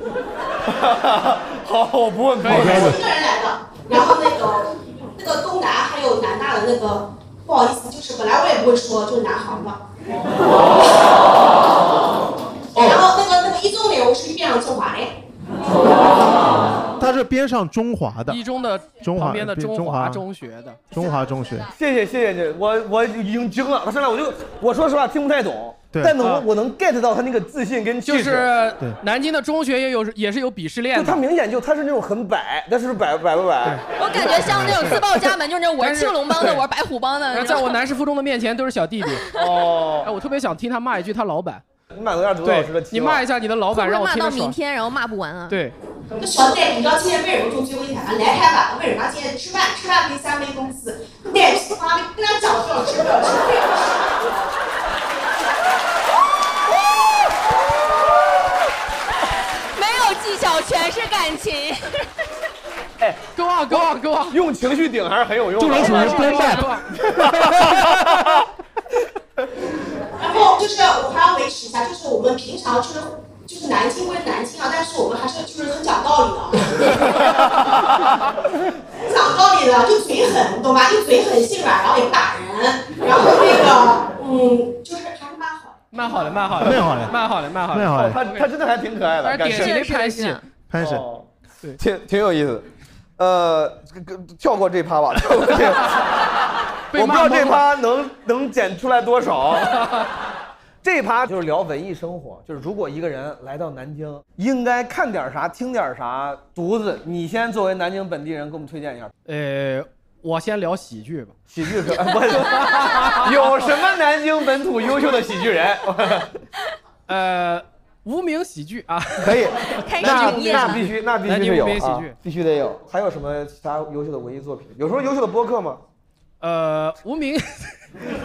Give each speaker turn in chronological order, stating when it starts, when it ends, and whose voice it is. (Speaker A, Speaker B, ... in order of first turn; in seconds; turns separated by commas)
Speaker A: 0.7-3.0, Speaker B: 2.4-2.9, Speaker C: 2.5-3.0, Speaker D: 2.8-9.8, Speaker D: 12.7-15.1, Speaker C: 17.0-18.4, Speaker B: 18.2-20.9, Speaker C: 19.0-20.2, Speaker C: 20.9-21.7, Speaker A: 21.7-28.5, Speaker B: 26.2-26.4, Speaker B: 28.0-31.2, Speaker A: 30.9-33.8, Speaker E: 34.0-37.8, Speaker B: 34.4-36.7, Speaker B: 37.3-39.3, Speaker A: 39.3-40.1, Speaker B: 40.0-41.6, Speaker A: 41.9-43.2, Speaker B: 42.4-44.6, Speaker E: 43.7-45.6, Speaker B: 45.5-45.8, Speaker D: 46.2-54.3, Speaker E: 59.7-62.0, Speaker A: 63.0-68.1, Speaker B: 63.3-64.4, Speaker C: 65.6-66.7, Speaker B: 65.7-66.9, Speaker C: 67.4-67.9, Speaker D: 70.2-77.0, Speaker D: 79.0-85.8, Speaker B: 85.9-88.5, Speaker C: 86.6-87.1, Speaker C: 87.7-88.2, Speaker A: 88.0-89.8, Speaker B: 89.2-90.4, Speaker E: 89.5-90.4, Speaker C: 90.7-91.0, Speaker A: 90.8-92.7, Speaker A: 93.2-96.0, Speaker B: 96.9-97.6, Speaker A: 96.9-99.8, Speaker A: 100.8-109.1, Speaker B: 109.2-111.3, Speaker A: 111.5-116.3, Speaker B: 112.4-113.5, Speaker B: 117.1-122.2, Speaker A: 119.2-125.8, Speaker E: 119.8-120.8, Speaker B: 126.4-127.8